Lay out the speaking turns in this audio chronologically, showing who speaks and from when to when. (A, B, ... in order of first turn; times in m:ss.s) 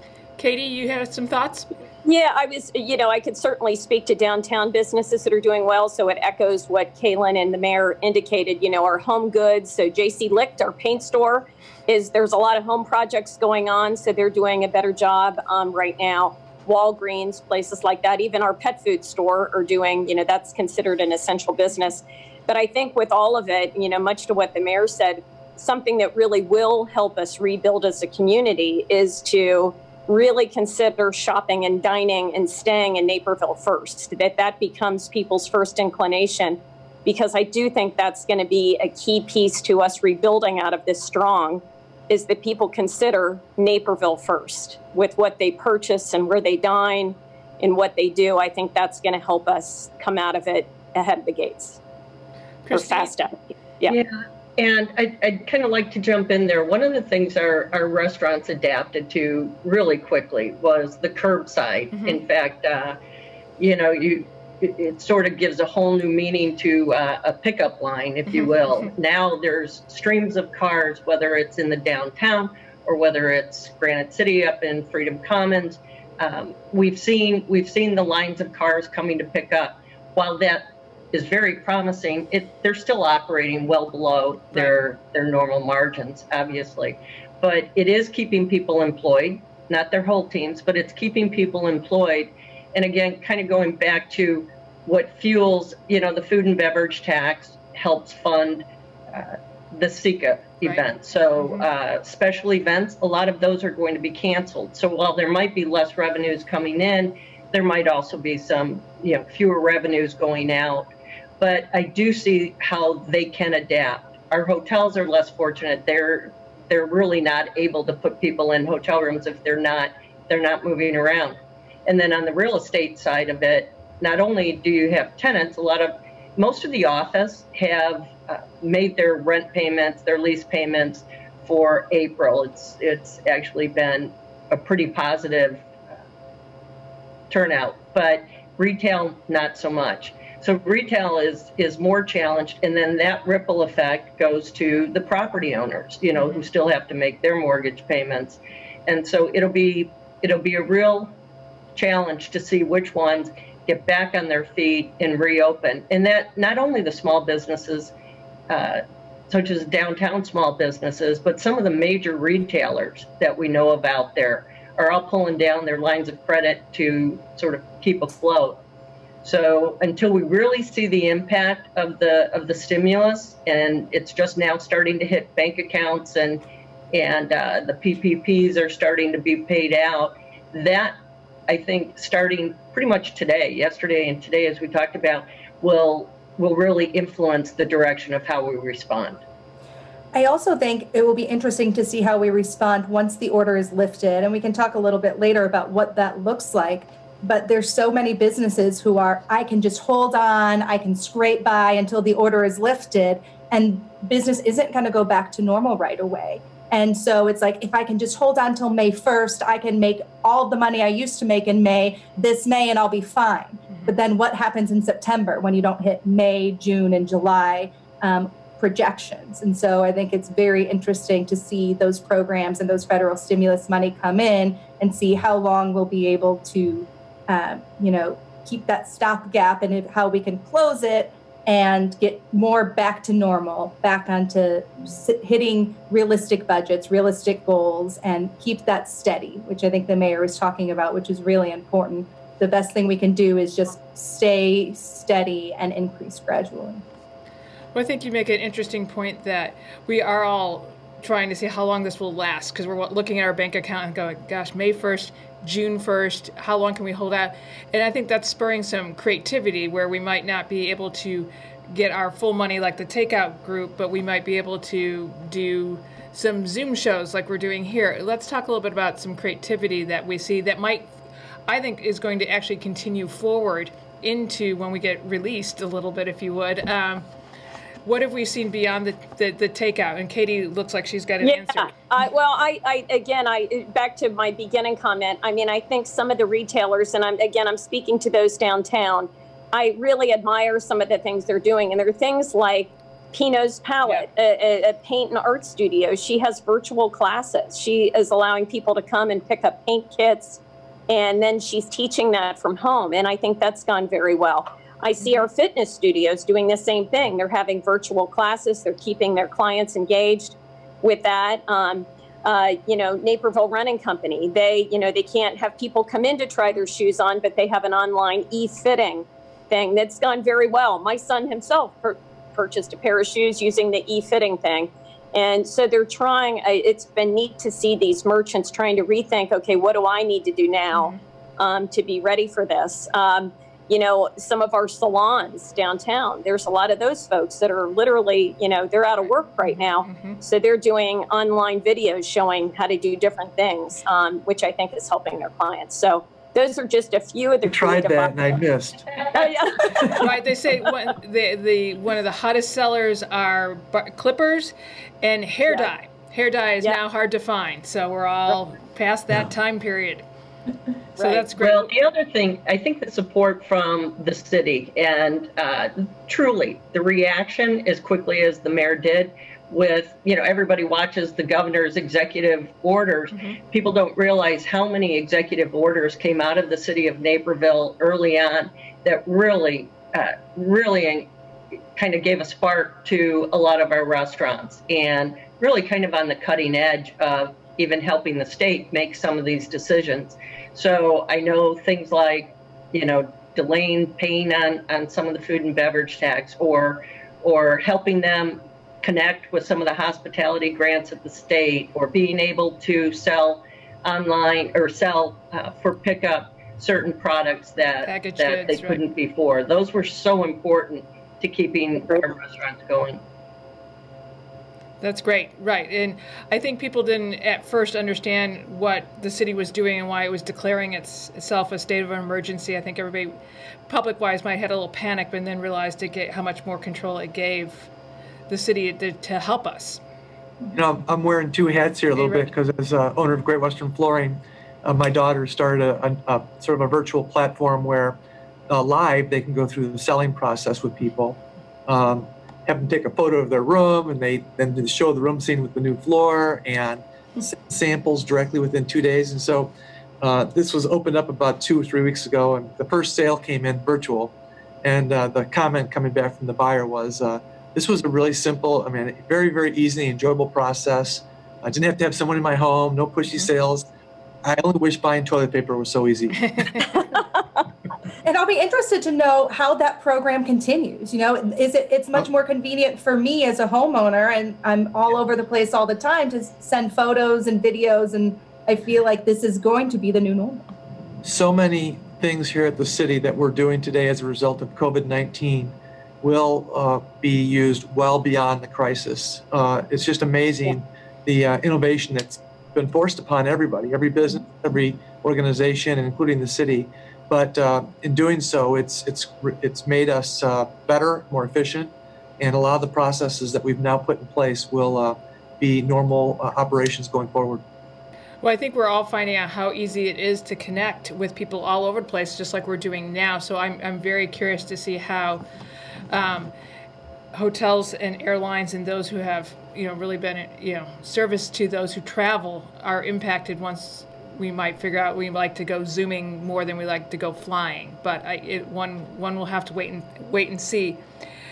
0:00.4-0:01.8 A
0:02.0-0:51.8 B
0:52.6-0:53.1 A
0:52.7-0:54.0 B
0:53.8-1:03.0 C
1:03.6-1:50.9 C
1:41.4-1:41.6 A
1:51.4-2:15.7 C
2:17.3-2:31.1 C
2:26.2-2:26.4 A
2:31.7-2:37.9 C
2:38.5-2:48.6 C
2:49.2-3:00.9 C
3:01.5-3:09.2 C
3:10.1-4:06.8 D
4:07.7-4:37.0 A
4:37.8-4:41.7 A
4:41.2-5:48.4 B
5:30.7-5:31.0 A
5:39.8-5:40.2 A
5:47.4-5:48.9 E
5:49.1-5:50.1 B
5:49.8-5:50.0 E
5:49.8-6:00.0 A
6:01.0-6:01.7 A
6:01.0-6:01.2 B
6:01.4-6:21.1 C
6:13.1-6:13.4 A
6:21.8-6:53.0 C
6:47.8-6:48.8 A
6:54.8-7:03.2 A
7:03.7-7:07.7 A
7:08.3-7:09.8 A
7:10.5-7:18.0 E
7:12.0-7:12.3 A
7:18.5-7:43.6 E
7:44.2-7:46.4 E
7:48.0-8:00.5 D
8:01.0-8:27.4 E
8:28.2-8:35.2 A
8:35.9-8:36.3 A
8:37.1-8:50.8 A